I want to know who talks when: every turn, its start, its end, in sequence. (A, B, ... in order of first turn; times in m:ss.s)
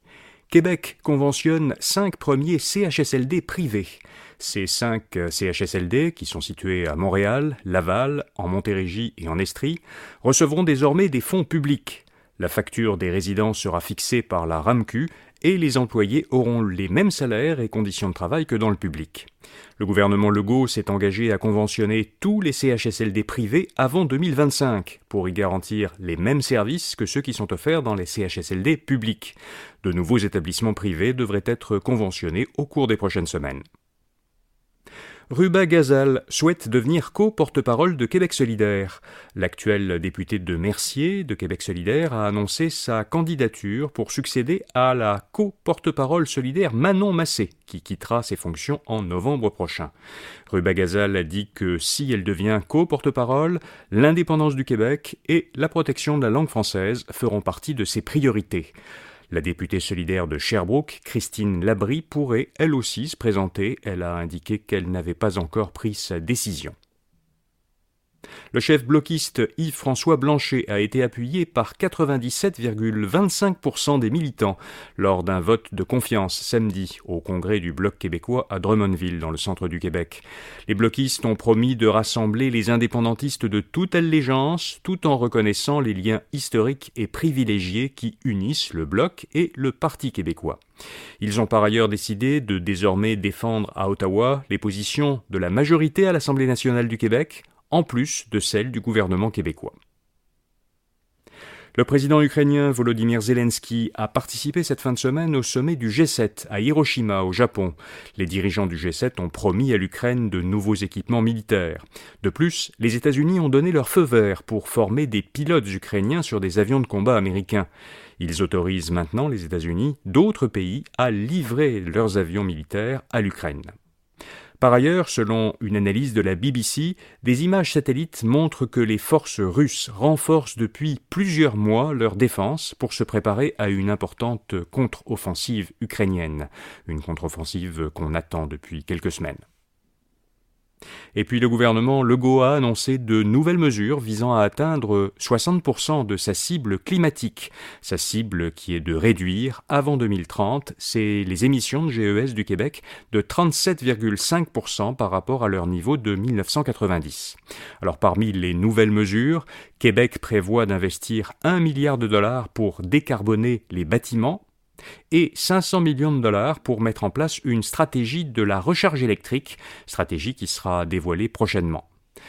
0:00.5-0:33.6 A
0:35.3-0:49.9 A
0:50.5-0:58.7 A
0:59.3-1:06.7 A
1:08.5-1:30.6 A
1:31.2-1:39.7 A
1:41.8-1:57.7 A
1:58.2-2:03.7 A
2:04.6-2:19.4 A
2:21.1-2:44.4 A
2:45.1-2:51.9 A